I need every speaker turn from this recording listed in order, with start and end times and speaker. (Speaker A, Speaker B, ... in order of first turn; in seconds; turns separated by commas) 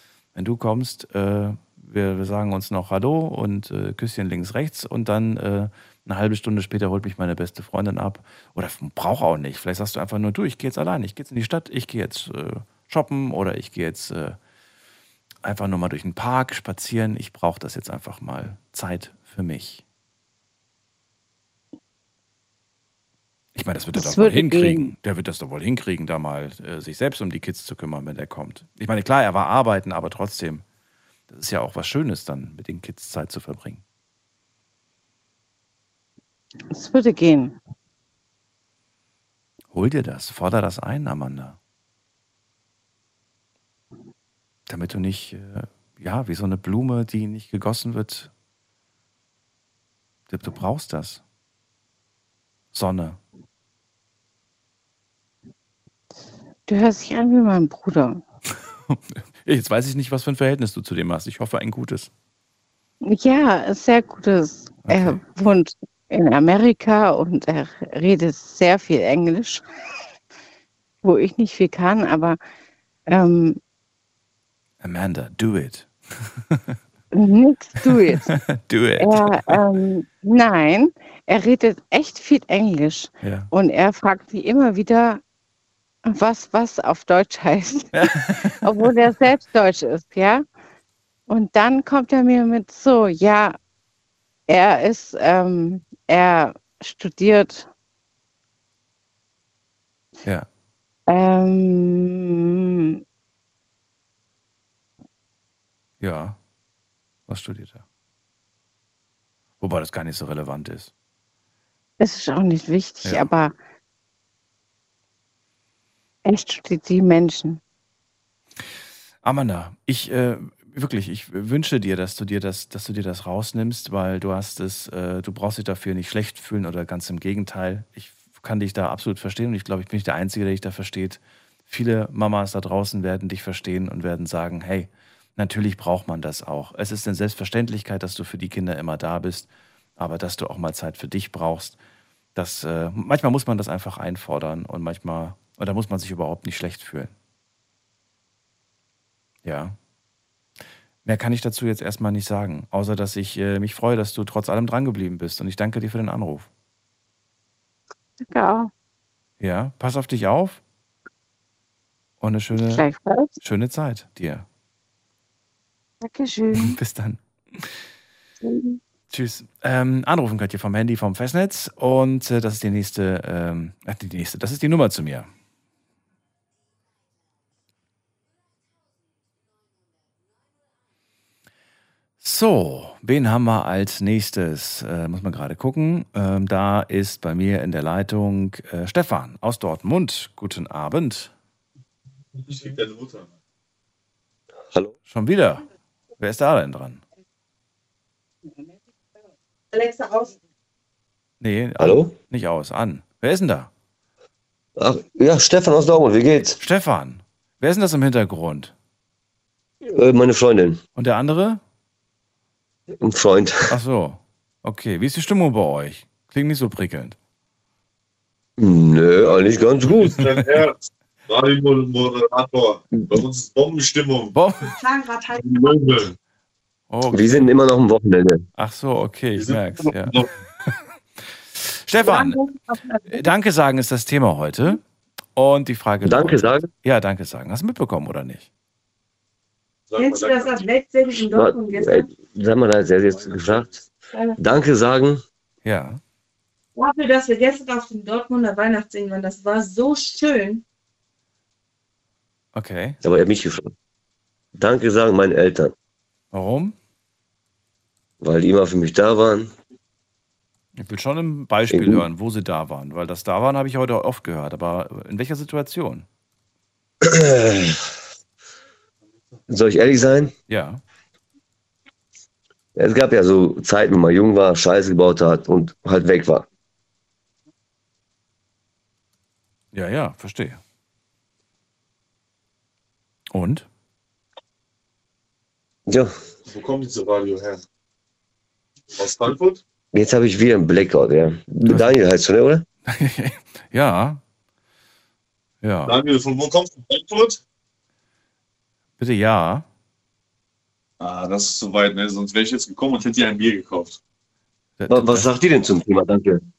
Speaker A: 0.3-14.4, Speaker A: 15.4-19.8, Speaker A: 23.6-30.6, Speaker B: 23.9-24.9, Speaker A: 31.3-33.8, Speaker B: 36.7-37.6, Speaker A: 39.7-41.6, Speaker A: 44.7-48.3, Speaker A: 50.3-51.2, Speaker A: 52.7-53.2, Speaker B: 56.7-58.2, Speaker A: 58.9-62.1, Speaker B: 63.1-69.6, Speaker A: 64.9-65.2, Speaker B: 71.0-72.4, Speaker B: 73.1-73.6, Speaker A: 74.8-76.8, Speaker B: 77.1-78.3, Speaker A: 77.9-79.6, Speaker B: 79.0-85.2, Speaker B: 86.1-88.1, Speaker A: 88.0-88.6, Speaker B: 88.6-90.5, Speaker B: 91.3-93.6, Speaker B: 94.5-97.7, Speaker B: 101.1-103.0, Speaker A: 106.0-106.4, Speaker A: 107.3-107.8, Speaker A: 109.6-110.9, Speaker B: 112.0-113.5, Speaker A: 113.0-113.3, Speaker B: 116.3-117.6, Speaker A: 119.2-141.8, Speaker A: 142.3-147.1, Speaker A: 149.4-149.8, Speaker A: 151.1-156.5, Speaker B: 158.2-158.7, Speaker A: 159.4-160.6, Speaker A: 162.2-162.8, Speaker B: 162.6-163.3, Speaker A: 163.4-164.5, Speaker B: 166.0-166.8, Speaker A: 166.5-167.7, Speaker B: 168.4-168.8, Speaker A: 169.1-175.3, Speaker A: 182.2-191.3, Speaker C: 192.4-193.3, Speaker A: 195.1-195.7, Speaker A: 196.2-197.0, Speaker A: 201.4-203.7, Speaker D: 201.8-202.1, Speaker D: 204.8-206.6, Speaker A: 206.6-208.7, Speaker D: 209.9-210.8, Speaker A: 211.0-211.6, Speaker D: 213.0-213.8, Speaker A: 213.7-217.2, Speaker D: 218.6-220.4, Speaker C: 220.1-220.8, Speaker C: 221.3-224.3, Speaker D: 222.9-223.2, Speaker A: 224.3-224.7, Speaker E: 224.8-225.4, Speaker C: 225.4-226.1, Speaker A: 226.9-227.4, Speaker D: 227.1-228.5, Speaker A: 228.6-230.7, Speaker C: 229.4-230.3, Speaker A: 231.6-232.4, Speaker E: 232.0-233.2, Speaker A: 233.1-234.8, Speaker A: 235.4-238.5, Speaker D: 236.0-236.7, Speaker C: 239.9-240.6, Speaker E: 240.0-242.1, Speaker D: 241.3-243.8, Speaker C: 243.1-243.7, Speaker D: 244.4-245.2, Speaker A: 245.7-246.0, Speaker E: 246.8-250.6, Speaker A: 252.6-253.0, Speaker D: 253.0-253.7, Speaker D: 254.6-255.7, Speaker A: 256.3-256.8, Speaker D: 258.2-259.5, Speaker A: 260.8-266.1, Speaker D: 261.7-262.1, Speaker D: 267.0-267.8, Speaker D: 269.5-270.3, Speaker A: 270.5-270.8, Speaker D: 272.8-276.5, Speaker A: 279.7-280.6, Speaker A: 283.3-283.7, Speaker D: 285.9-286.1, Speaker C: 286.5-287.6, Speaker C: 288.9-289.6, Speaker D: 289.9-292.6, Speaker A: 292.9-294.2, Speaker A: 295.6-295.9, Speaker C: 295.9-297.4, Speaker A: 299.0-299.7, Speaker C: 301.0-304.0, Speaker A: 304.8-305.3, Speaker D: 304.9-306.4